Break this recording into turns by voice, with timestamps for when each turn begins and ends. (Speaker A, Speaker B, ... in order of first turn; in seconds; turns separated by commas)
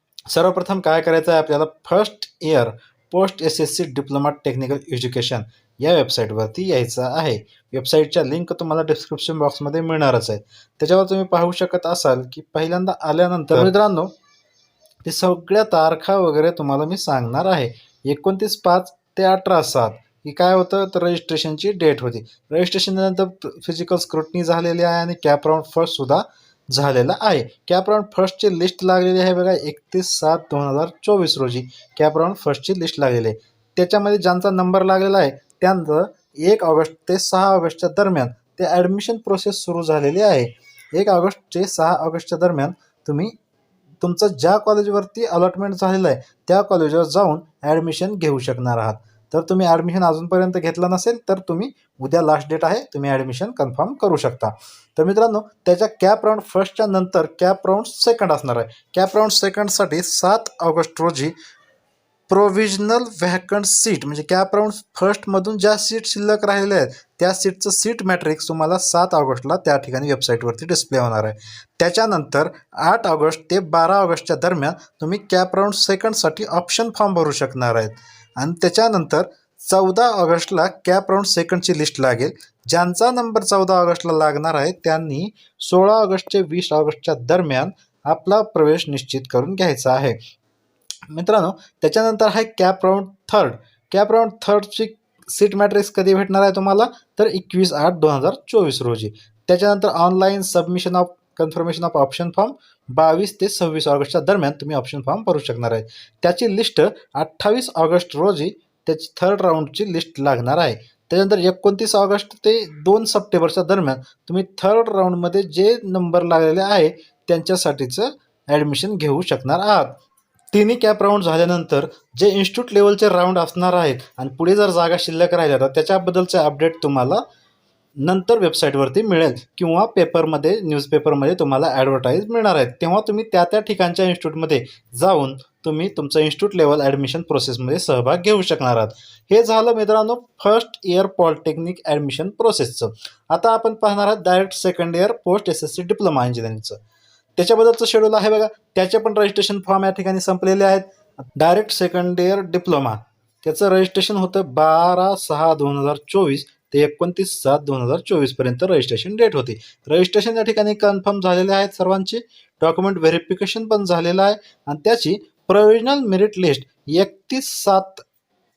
Speaker A: 0.3-14.1, Speaker A: 15.0-43.3, Speaker A: 44.0-61.3, Speaker A: 62.3-90.2, Speaker A: 91.1-120.0, Speaker A: 120.5-127.2, Speaker A: 128.0-146.8, Speaker A: 147.3-168.0